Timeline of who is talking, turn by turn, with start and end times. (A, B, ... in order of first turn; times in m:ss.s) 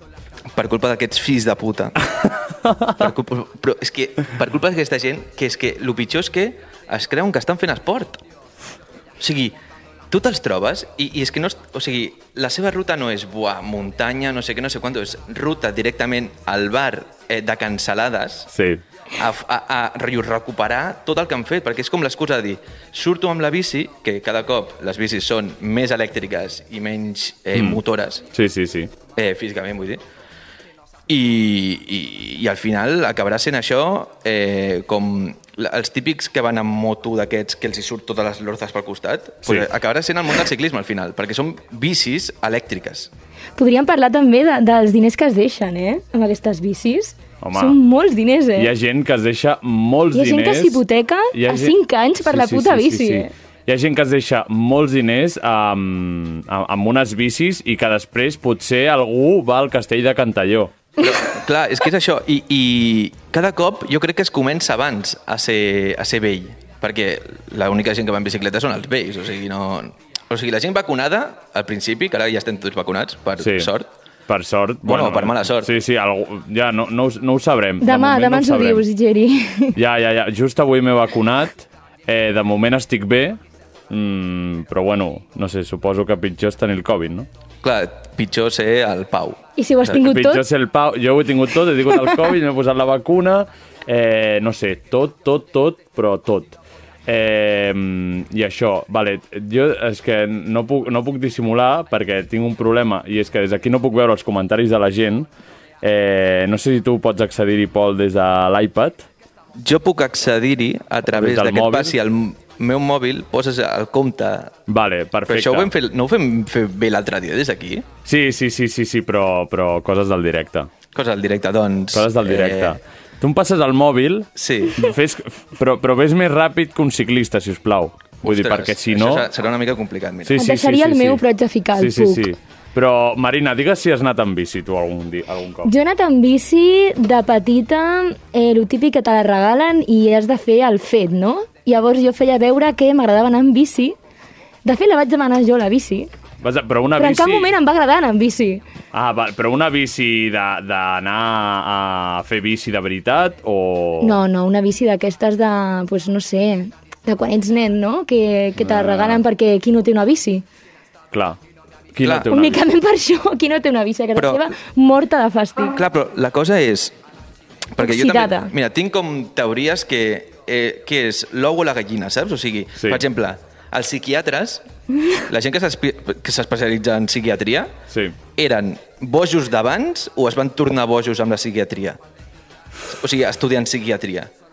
0:00.5-0:02.0 A
0:02.7-0:03.0 B
0:03.0-0:08.2 A
0:09.2-0:09.6 A
0:10.1-0:18.5 A
0:18.5-0:18.8 B
0:19.1-0:28.3 A
0:27.6-0:27.8 B
0:28.3-0:28.9 B
0:29.2-0:30.0 A
0:31.1-0:43.1 A
0:43.6-0:48.7 C
0:47.4-0:47.8 B
0:48.6-1:00.7 B
0:50.1-0:53.3 C
1:01.0-1:13.9 A
1:13.4-1:13.7 B
1:14.3-1:18.8 B
1:14.8-1:15.8 A
1:17.8-1:19.8 C
1:19.8-1:23.4 B
1:23.9-1:27.3 B
1:27.6-1:29.4 A
1:29.6-1:30.4 C
1:29.9-1:45.3 B
1:45.8-1:49.0 B
1:49.6-1:54.6 A
1:51.1-1:51.9 B
1:54.7-1:55.7 B
1:55.3-1:57.9 A
1:58.0-2:00.7 B
2:01.0-2:02.8 A
2:01.9-2:09.3 B
2:04.4-2:04.8 A
2:08.2-2:10.4 A
2:10.2-2:11.2 B
2:10.4-2:12.3 C
2:11.8-2:15.7 B
2:15.6-2:24.0 C
2:24.6-2:26.1 C
2:26.4-2:27.5 B
2:27.0-2:28.6 C
2:28.9-2:34.2 B
2:34.0-2:40.4 C
2:38.6-2:39.2 B
2:41.1-2:41.4 B
2:41.9-2:42.7 B
2:42.0-2:42.3 A
2:42.3-2:45.8 C
2:44.2-2:44.5 A
2:45.7-2:47.0 A
2:47.7-2:54.6 A
2:47.8-2:48.5 C
2:55.3-2:57.7 A
2:57.9-2:58.2 B
2:58.4-3:02.0 A
3:02.9-3:04.3 A